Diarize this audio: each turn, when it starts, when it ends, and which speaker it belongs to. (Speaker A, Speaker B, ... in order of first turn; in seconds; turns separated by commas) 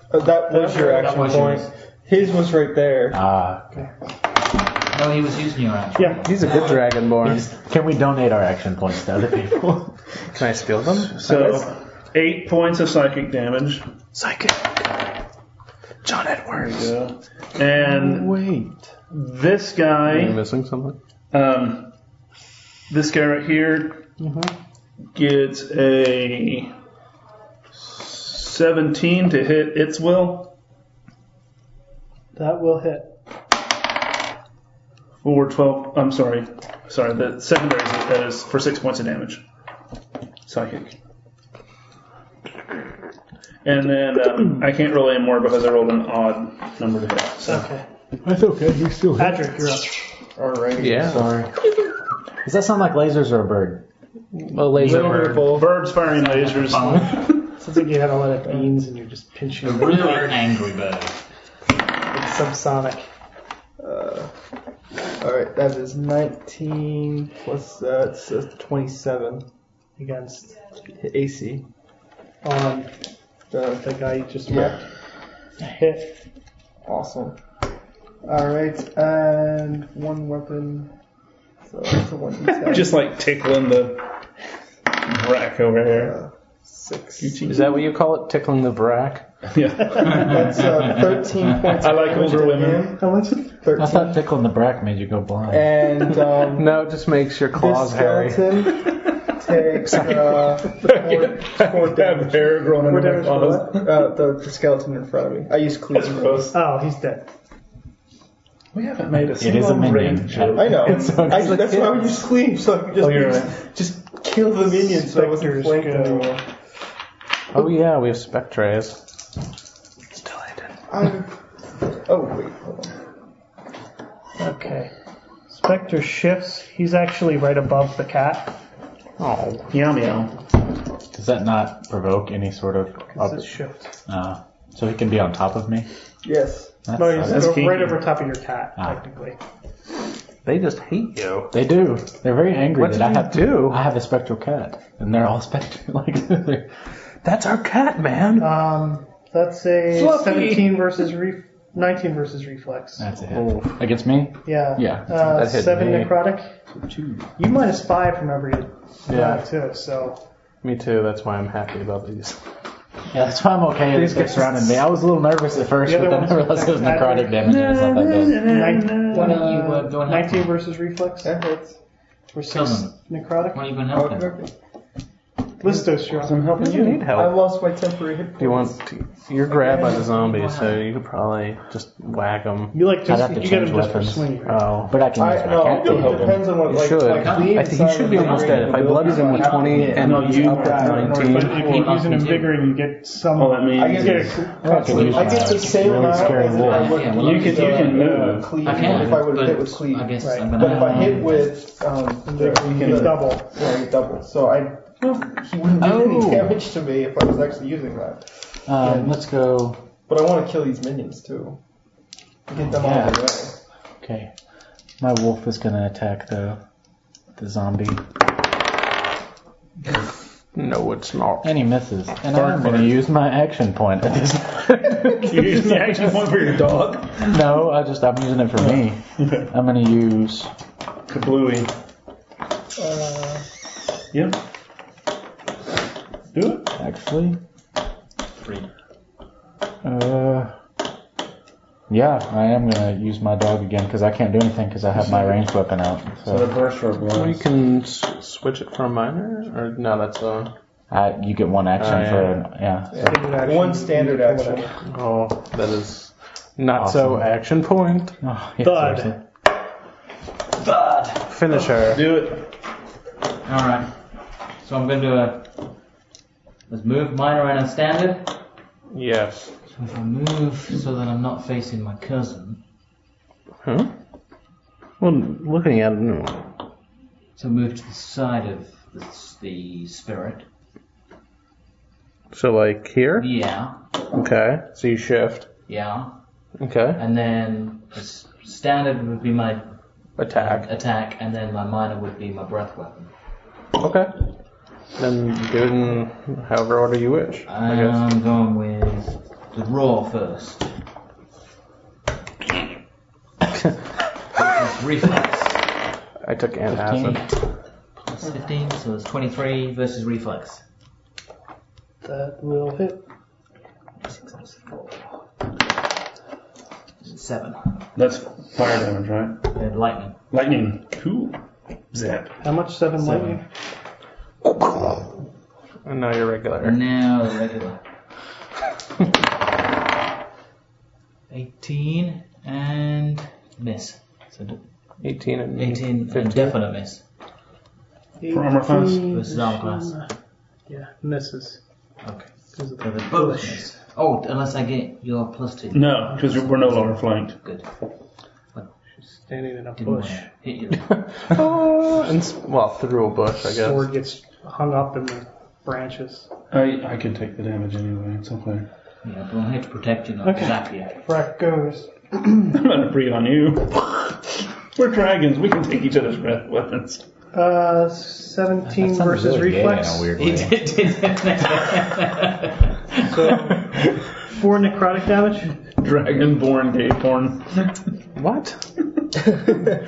Speaker A: 0.1-3.2, Speaker B: 0.5-1.7, Speaker C: 3.1-3.6, Speaker B: 4.9-6.6, Speaker D: 6.2-7.5, Speaker C: 7.2-9.9, Speaker D: 10.3-11.2, Speaker E: 11.1-13.9, Speaker F: 11.3-11.6, Speaker D: 14.1-14.9, Speaker D: 16.0-16.9, Speaker E: 16.5-18.4, Speaker C: 17.9-18.7, Speaker E: 19.1-20.4, Speaker D: 20.0-21.0, Speaker E: 21.3-21.9, Speaker E: 22.9-24.1, Speaker F: 24.2-24.5, Speaker E: 25.1-26.7, Speaker E: 27.7-30.5, Speaker F: 32.3-33.1, Speaker E: 35.2-39.4, Speaker E: 40.4-41.0, Speaker E: 43.6-47.7, Speaker F: 47.5-47.8, Speaker C: 48.2-49.6, Speaker F: 49.2-50.0, Speaker A: 50.4-51.3, Speaker D: 50.8-51.3, Speaker C: 51.0-51.5, Speaker C: 52.4-53.8, Speaker D: 54.3-55.6, Speaker A: 54.8-55.8, Speaker E: 54.8-57.5, Speaker B: 56.0-57.3, Speaker F: 57.5-60.4, Speaker B: 59.6-61.2, Speaker F: 62.1-63.1, Speaker A: 63.8-64.3, Speaker A: 65.2-69.5, Speaker F: 70.0-70.5, Speaker A: 70.9-71.6, Speaker F: 72.4-72.9, Speaker A: 73.5-73.9, Speaker F: 73.8-74.8, Speaker A: 74.5-74.7, Speaker F: 75.6-76.2, Speaker A: 76.8-77.4, Speaker A: 78.2-80.9, Speaker A: 81.7-83.1, Speaker E: 82.6-84.0, Speaker E: 84.9-86.1, Speaker A: 85.8-87.5, Speaker E: 87.2-87.8, Speaker D: 87.5-89.2, Speaker E: 89.5-90.7, Speaker A: 89.9-94.2, Speaker E: 91.6-92.9, Speaker F: 92.9-93.4, Speaker C: 93.8-95.9, Speaker A: 95.5-96.9, Speaker D: 96.3-98.5, Speaker A: 97.5-102.6, Speaker E: 99.9-104.0, Speaker F: 102.8-103.8, Speaker A: 103.7-106.5, Speaker E: 105.9-106.5, Speaker F: 106.5-107.3, Speaker E: 108.7-111.0, Speaker C: 109.4-112.0, Speaker A: 110.5-116.4, Speaker D: 110.8-111.8, Speaker E: 113.0-113.6, Speaker F: 114.7-116.3, Speaker D: 117.5-119.0, Speaker D: 120.1-120.7, Speaker A: 120.9-121.3, Speaker A: 122.0-122.9, Speaker F: 124.4-124.9, Speaker F: 125.5-128.5, Speaker D: 129.2-129.6, Speaker E: 129.7-130.3, Speaker C: 131.1-133.5, Speaker F: 133.1-133.9, Speaker C: 134.1-135.9, Speaker A: 136.2-136.8, Speaker C: 136.8-137.5, Speaker F: 136.9-139.4, Speaker E: 137.2-138.1, Speaker D: 140.4-141.5, Speaker C: 141.5-146.7, Speaker D: 142.8-143.8, Speaker D: 147.2-148.6, Speaker F: 148.4-153.1, Speaker E: 149.9-150.8, Speaker C: 153.0-155.4, Speaker D: 153.3-153.8, Speaker F: 154.4-156.5, Speaker D: 155.2-156.1, Speaker C: 156.8-157.2, Speaker F: 157.4-160.2, Speaker D: 159.1-159.4, Speaker D: 160.6-162.4, Speaker C: 163.1-168.4, Speaker F: 165.8-167.4, Speaker E: 167.4-169.4, Speaker F: 168.3-171.3, Speaker B: 169.1-170.5, Speaker A: 171.2-171.8, Speaker F: 172.3-173.6, Speaker B: 172.5-172.9, Speaker B: 173.5-174.3, Speaker A: 173.9-174.5, Speaker F: 175.6-176.5, Speaker E: 175.7-177.2, Speaker D: 176.6-177.4, Speaker A: 177.1-178.8, Speaker D: 178.4-182.8, Speaker A: 179.5-180.1, Speaker B: 180.1-180.8, Speaker F: 182.7-184.6, Speaker C: 183.1-184.3, Speaker D: 184.4-185.0, Speaker C: 184.8-186.5, Speaker A: 185.2-191.3, Speaker E: 185.6-186.6, Speaker D: 186.6-191.8, Speaker B: 187.1-190.1, Speaker E: 189.9-191.9, Speaker F: 190.5-195.4, Speaker B: 191.4-192.6, Speaker E: 193.3-194.5, Speaker A: 193.8-209.2, Speaker C: 194.6-197.1, Speaker B: 194.8-198.0, Speaker E: 197.1-199.1, Speaker B: 198.6-201.6, Speaker F: 200.2-200.5, Speaker F: 202.2-203.5, Speaker E: 202.3-203.3, Speaker E: 205.0-205.2, Speaker C: 205.8-206.5, Speaker C: 208.7-209.8, Speaker A: 210.1-211.6, Speaker A: 212.5-213.5, Speaker C: 212.7-213.2, Speaker C: 214.0-214.3, Speaker C: 215.0-216.6, Speaker C: 217.4-218.0, Speaker D: 220.5-221.5, Speaker C: 221.4-225.8, Speaker E: 222.3-222.9, Speaker E: 225.2-227.4, Speaker C: 227.3-230.5, Speaker E: 228.6-229.5, Speaker E: 231.1-231.7, Speaker A: 232.8-233.4, Speaker E: 234.1-234.4, Speaker E: 236.3-236.7, Speaker C: 236.8-237.4, Speaker B: 238.3-238.7, Speaker C: 239.8-240.5, Speaker C: 241.9-246.5, Speaker E: 246.2-247.5, Speaker D: 247.1-250.5, Speaker C: 250.9-253.1, Speaker D: 251.8-252.3, Speaker A: 252.9-254.8, Speaker F: 253.1-254.7, Speaker D: 254.9-258.2, Speaker C: 256.8-257.2, Speaker C: 258.2-259.2, Speaker F: 258.6-259.2, Speaker B: 260.5-261.3, Speaker D: 261.2-262.0, Speaker E: 261.7-262.5, Speaker B: 263.4-263.9, Speaker B: 264.6-265.5, Speaker B: 266.7-268.4, Speaker D: 268.9-269.5, Speaker B: 269.7-272.6, Speaker D: 273.6-273.9, Speaker D: 275.0-276.5, Speaker B: 277.4-280.4, Speaker D: 282.3-283.3, Speaker B: 283.1-283.8, Speaker D: 284.1-285.5, Speaker B: 285.7-286.2, Speaker D: 286.6-287.0, Speaker B: 286.9-289.7, Speaker D: 290.2-290.7, Speaker B: 290.3-293.1, Speaker D: 293.8-294.2, Speaker D: 295.0-298.0, Speaker B: 297.5-300.7, Speaker B: 304.3-305.6, Speaker D: 306.2-307.3, Speaker C: 306.7-307.2, Speaker B: 308.0-310.6, Speaker F: 312.0-313.0, Speaker B: 314.1-314.5, Speaker B: 317.0-317.8, Speaker E: 317.9-319.5, Speaker B: 319.5-320.1, Speaker E: 320.3-322.4, Speaker F: 322.4-323.4, Speaker B: 323.0-323.4, Speaker D: 324.6-325.0, Speaker D: 325.8-326.8, Speaker B: 326.6-327.8, Speaker B: 331.3-334.6, Speaker D: 335.0-336.5, Speaker B: 335.6-337.0, Speaker F: 338.2-340.1, Speaker E: 338.3-339.1, Speaker B: 339.1-340.0, Speaker F: 340.7-341.6, Speaker B: 342.0-347.7, Speaker F: 342.5-343.7, Speaker E: 345.7-347.4, Speaker F: 349.0-350.2, Speaker B: 349.8-351.3, Speaker D: 350.9-353.9, Speaker F: 353.4-356.3, Speaker E: 356.5-358.7, Speaker B: 359.0-361.0, Speaker F: 360.2-362.5, Speaker E: 362.5-364.2, Speaker E: 364.7-367.0, Speaker F: 367.3-370.1, Speaker C: 368.8-370.6, Speaker B: 370.2-372.6, Speaker F: 373.0-375.6, Speaker E: 375.8-377.8, Speaker D: 378.1-378.6